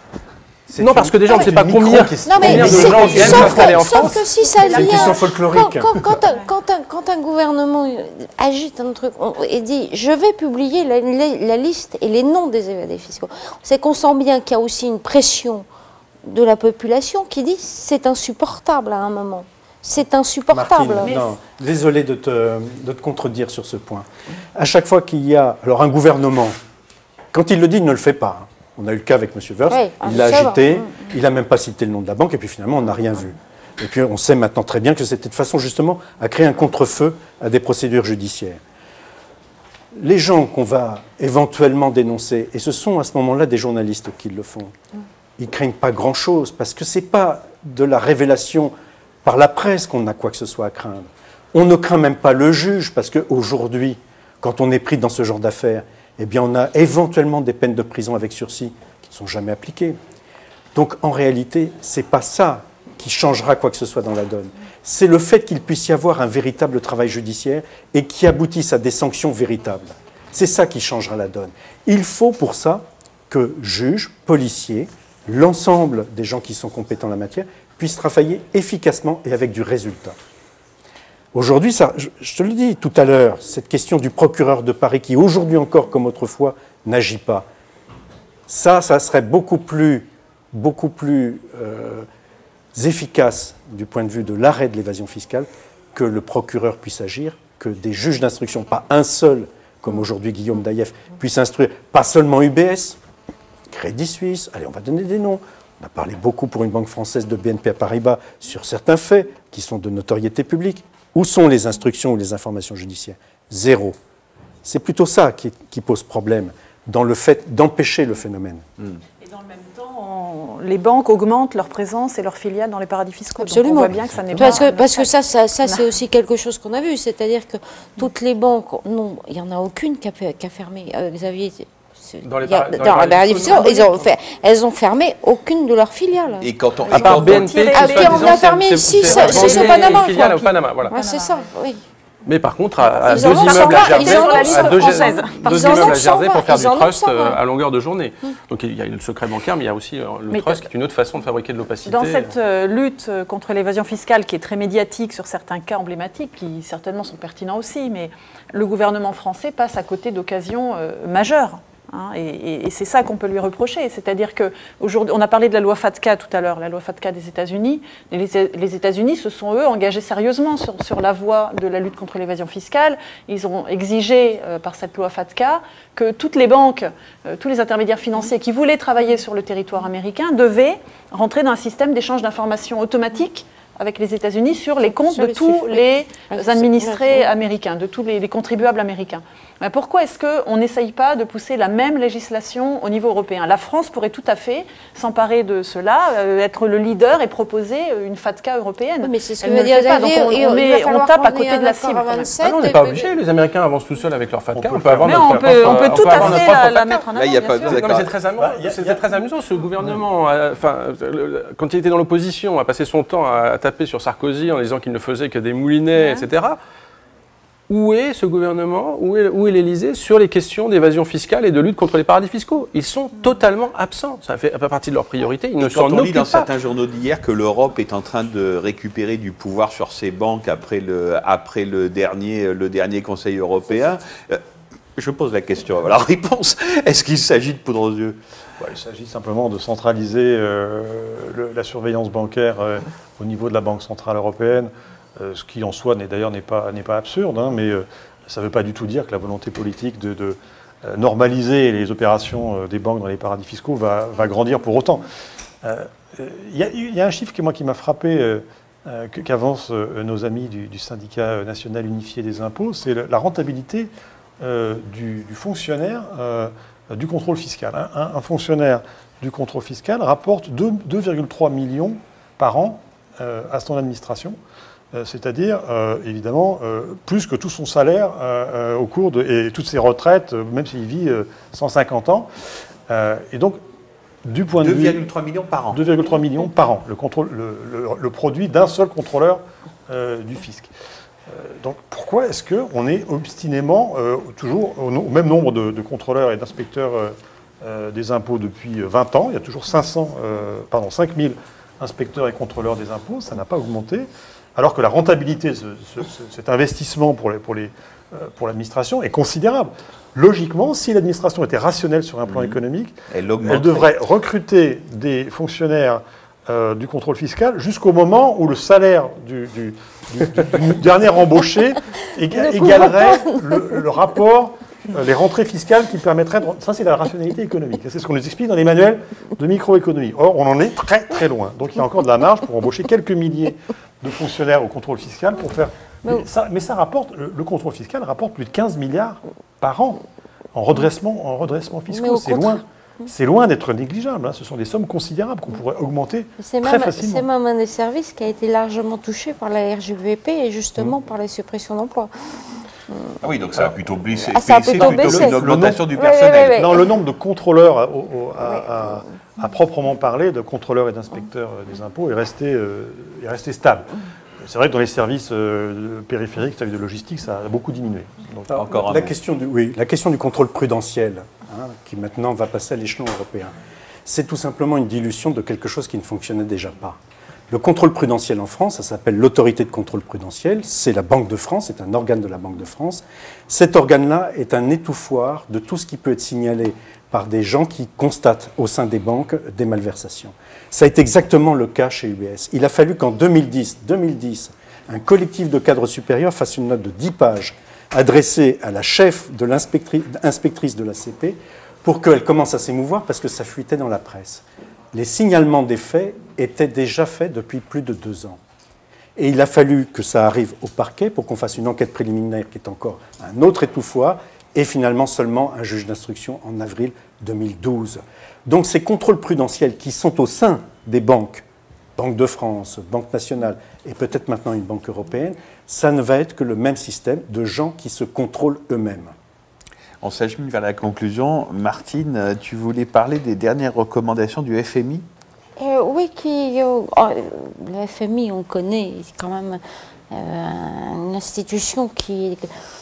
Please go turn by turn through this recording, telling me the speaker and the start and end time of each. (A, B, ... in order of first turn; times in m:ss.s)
0:00.7-0:06.1 A
0:00.8-0:04.3 B
0:02.1-0:04.2 C
0:02.2-0:15.7 D
0:16.2-0:21.2 D
0:20.5-0:26.6 A
0:27.3-0:38.6 A
0:29.7-0:31.1 D
0:40.0-0:44.8 A
0:45.4-0:48.7 A
0:49.2-1:00.0 A
1:00.7-1:20.2 A
1:21.3-1:27.5 A
1:28.5-1:32.1 A
1:32.8-1:43.0 A
1:43.7-1:54.0 A
1:54.6-1:58.6 A
1:59.2-2:05.9 E
2:03.4-2:16.5 D
2:03.9-2:04.6 C
2:12.2-2:14.1 B
2:16.4-2:17.8 F
2:16.9-2:20.4 E
2:16.9-2:21.1 B
2:17.7-2:21.8 D
2:21.0-2:21.4 E
2:22.3-2:32.3 B
2:22.8-2:27.4 D
2:23.0-2:26.2 E
2:30.3-2:30.7 E
2:31.8-3:22.5 E
3:04.9-3:07.3 D
3:19.0-3:23.1 D
3:22.4-3:27.0 B
3:24.5-3:26.9 C
3:25.0-3:28.0 E
3:27.1-3:28.1 F
3:27.7-3:36.6 B
3:28.4-3:30.0 C
3:36.0-3:36.3 E
3:37.7-3:46.5 B
3:45.6-3:54.4 F
3:55.0-3:58.2 F
3:58.6-4:15.0 C
4:15.6-4:23.9 C
4:24.4-4:34.4 C
4:34.9-4:42.3 C
4:42.9-4:43.6 C
4:44.2-4:45.1 C
4:44.6-4:45.8 F
4:45.7-4:50.7 C
4:51.3-5:40.0 C
5:12.3-5:12.6 F
5:13.1-5:14.0 F
5:22.4-5:23.4 D
5:40.5-5:47.3 C
5:41.9-5:42.6 D
5:46.4-5:52.1 D
5:53.2-5:56.7 F
5:54.2-5:55.4 D
5:54.6-6:03.9 C
5:55.9-5:56.9 D
5:58.4-5:58.7 D
6:04.4-6:08.6 C
6:08.5-6:13.5 A
6:08.6-6:09.1 F
6:14.1-6:17.0 A
6:17.5-6:48.4 A
6:49.2-7:01.4 A
7:02.0-7:09.1 A
7:10.0-7:15.0 F
7:15.6-7:22.5 D